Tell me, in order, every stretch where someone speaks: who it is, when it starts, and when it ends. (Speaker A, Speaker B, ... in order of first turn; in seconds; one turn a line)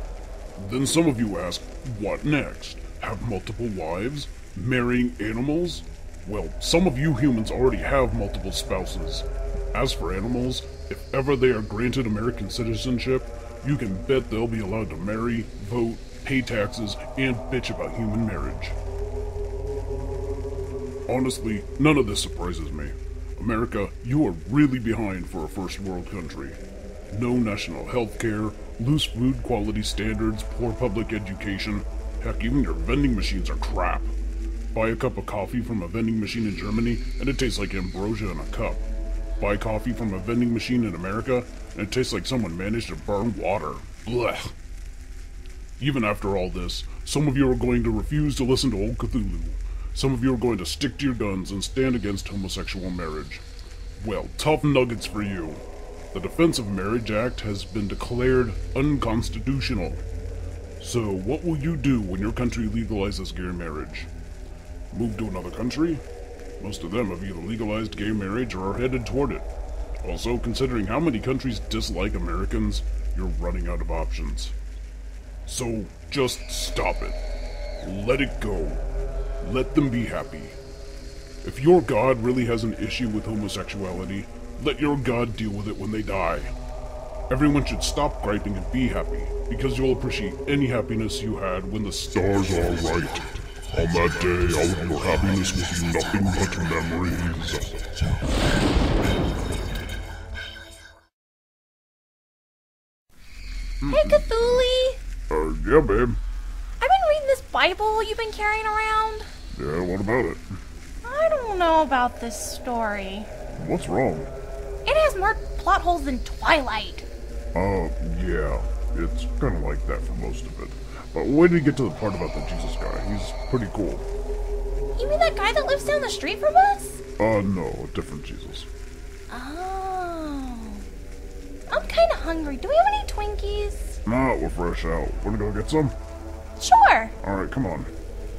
Speaker A: 0.6-18.8
Speaker A: 21.1-26.6
Speaker A: 27.1-34.1
Speaker A: 34.7-38.8
Speaker A: 39.4-44.5
Speaker A: 45.8-53.4
Speaker A: 54.0-60.0
Speaker A: 60.8-64.1
Speaker A: 64.9-66.0
Speaker A: 66.6-69.5
Speaker A: 70.0-74.5
Speaker A: 75.5-77.2
Speaker A: 77.8-78.8
Speaker A: 79.4-80.6
Speaker A: 81.4-86.5
Speaker A: 87.3-97.8
Speaker A: 103.8-104.6
Speaker B: 103.8-105.0
Speaker A: 105.3-106.2
Speaker B: 106.8-109.3
Speaker A: 109.5-110.4
Speaker B: 111.0-113.3
Speaker A: 113.5-114.3
Speaker B: 114.8-117.1
Speaker A: 117.5-124.0
Speaker B: 124.9-127.0
Speaker A: 127.2-128.7
Speaker B: 129.3-130.8
Speaker B: 131.7-134.0
Speaker A: 134.1-135.9
Speaker B: 136.6-137.1
Speaker A: 137.2-137.9